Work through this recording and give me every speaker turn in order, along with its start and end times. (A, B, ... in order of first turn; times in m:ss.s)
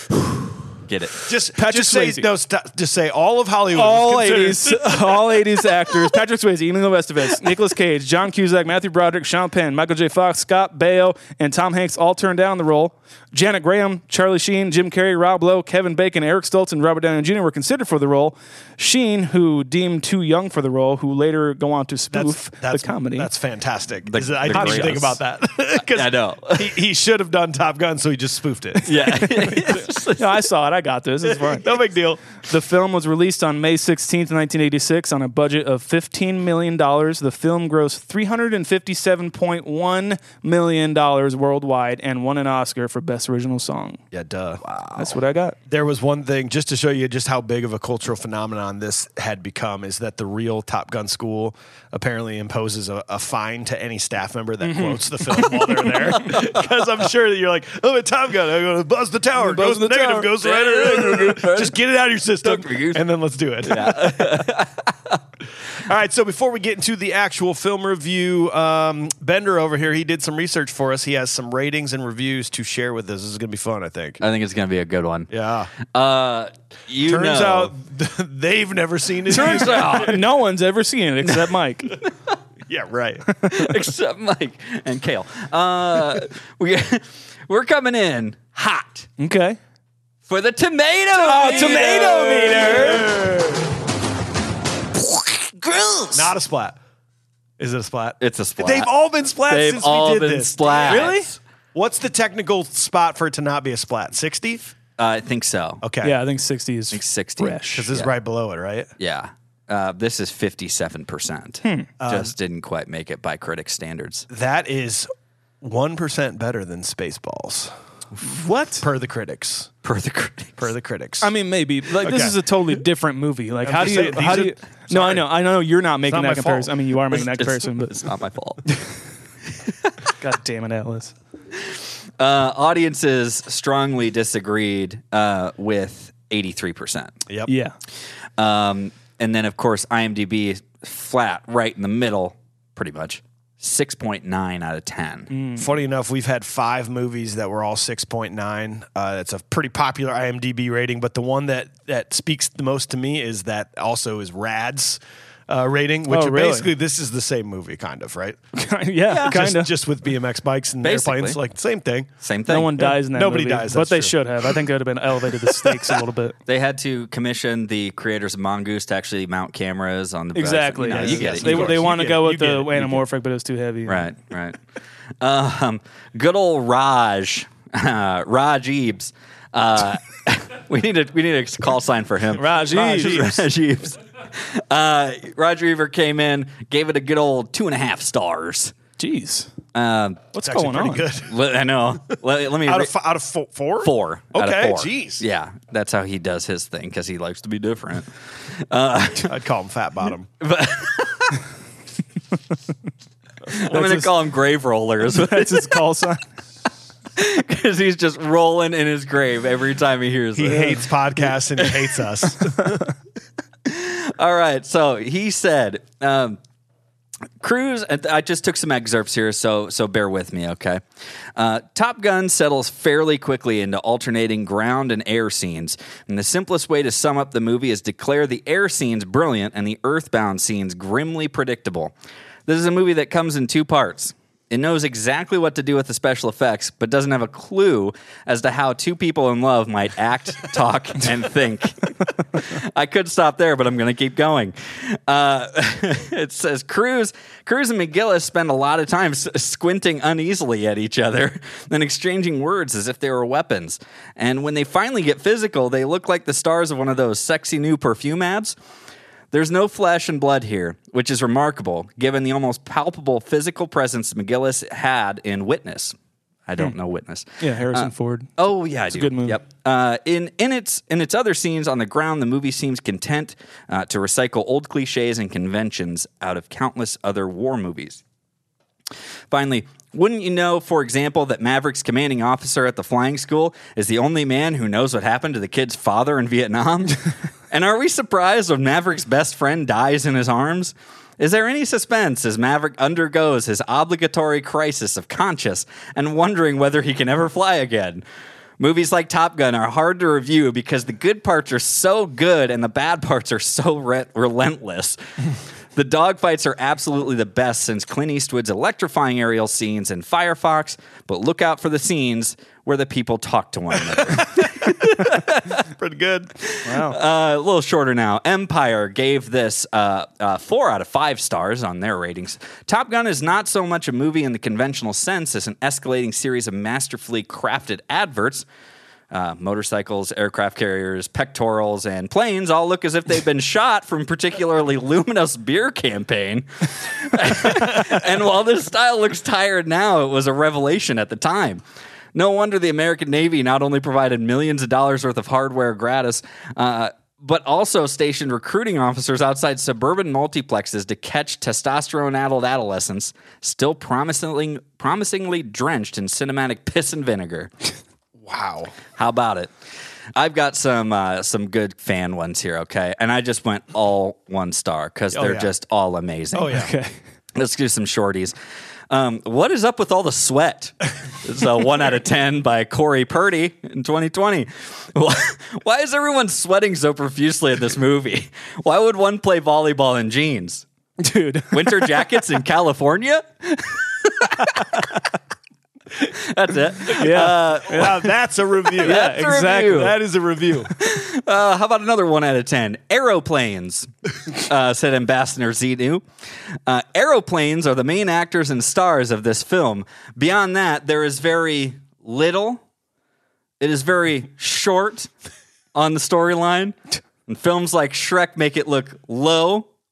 0:00.9-0:01.3 A
0:01.2-0:05.1 B
0:01.6-0:02.3 C
0:03.7-0:23.3 C
0:22.1-0:28.9 B
0:24.1-0:25.2 A
0:24.5-0:24.9 C
0:25.8-0:26.8 A
0:28.8-0:31.7 C
0:28.8-0:30.4 A
0:31.6-0:32.2 B
0:32.4-0:44.0 C
0:44.1-0:44.6 B
0:44.6-0:45.0 A
0:45.0-0:45.6 C
0:45.7-1:04.4 B
0:54.6-0:56.3 C
0:56.2-0:56.7 A
0:59.4-1:00.3 C
1:00.4-1:01.8 A
1:02.4-1:03.0 A
1:03.7-1:05.2 A
1:05.7-1:14.2 B
1:14.2-1:15.3 A
1:15.3-1:15.7 B
1:15.8-1:17.7 A
1:17.0-1:20.2 B
1:19.3-1:20.2 A
1:19.3-1:22.0 C
1:21.3-1:22.4 A
1:22.7-1:23.2 B
1:23.3-1:23.6 C
1:23.5-1:29.1 A
1:29.2-1:29.6 C
1:30.3-1:33.1 A
1:31.2-1:33.1 C
1:31.4-1:33.7 B
1:35.0-1:36.3 A
1:36.1-1:36.8 B
1:37.6-1:44.7 B
1:38.2-1:38.9 A
1:39.5-1:41.3 A
1:40.9-1:41.3 C
1:45.0-1:45.8 A
1:45.8-1:46.2 B
1:46.0-1:47.9 C
1:46.9-1:48.1 A
1:47.7-1:48.9 B
1:49.0-1:54.3 A
1:51.6-1:51.9 C
1:52.0-1:52.3 B
1:54.3-1:55.1 B
1:55.6-1:57.7 B
1:58.2-1:58.9 C
1:58.8-1:59.7 B
1:59.8-2:00.7 A
2:00.6-2:01.3 B
2:01.2-2:07.9 C
2:02.0-2:02.4 B
2:03.6-2:05.3 B
2:06.1-2:06.7 B
2:07.1-2:08.6 A
2:10.2-2:11.1 C
2:11.6-2:17.1 A
2:17.5-2:17.8 C
2:18.4-2:25.3 A
2:25.3-2:25.7 C
2:25.6-2:38.4 B
2:36.1-2:36.7 C
2:38.6-2:39.7 C
2:39.1-2:39.4 A
2:39.3-2:42.1 B
2:40.8-2:41.4 A
2:42.2-2:42.8 A
2:42.5-2:46.4 C
2:42.8-2:44.2 B
2:45.4-2:46.0 B
2:46.5-2:52.0 A
2:50.4-2:54.1 C
2:50.8-2:52.9 B
2:53.9-2:54.6 A
2:55.2-3:08.7 A
3:02.3-3:03.4 C
3:02.7-3:03.4 B
3:09.0-3:09.5 C
3:09.7-3:10.3 A
3:10.3-3:11.1 C
3:10.4-3:11.3 B
3:11.3-3:12.9 A
3:12.7-3:15.2 B
3:13.8-3:19.4 A
3:19.2-3:20.3 B
3:20.4-3:21.4 A
3:23.5-3:25.8 A
3:23.5-3:24.1 C
3:25.1-3:26.2 C
3:27.2-3:30.8 A
3:30.4-3:32.6 B
3:30.5-3:30.8 C
3:31.6-3:32.4 A
3:33.6-3:36.4 A
3:37.4-3:40.8 A
3:41.4-3:51.9 A
3:52.5-4:18.6 A
4:19.3-4:26.0 A
4:26.5-4:38.0 A
4:27.4-4:28.3 C
4:28.9-4:29.4 C
4:39.3-4:58.0 A
4:58.6-5:05.0 A
5:05.8-5:15.6 A
5:15.8-5:16.3 B
5:16.4-5:28.5 A
5:16.6-5:17.0 C
5:29.1-5:41.6 A
5:42.2-5:57.5 A
5:58.2-5:58.8 B
5:59.0-5:59.5 A
6:00.2-6:06.6 A
6:05.1-6:05.5 B
6:06.3-6:06.7 B
6:06.5-6:06.9 C
6:07.4-6:08.3 A
6:08.9-6:20.6 A
6:21.0-6:22.0 C
6:21.5-6:24.8 A
6:26.0-6:28.1 A
6:26.9-6:27.9 C
6:27.2-6:30.7 B
6:28.8-6:30.0 A
6:28.8-6:29.9 C
6:30.8-6:36.0 A
6:36.7-6:42.6 A
6:43.6-6:45.1 A
6:45.7-6:46.8 A
6:47.3-6:49.7 A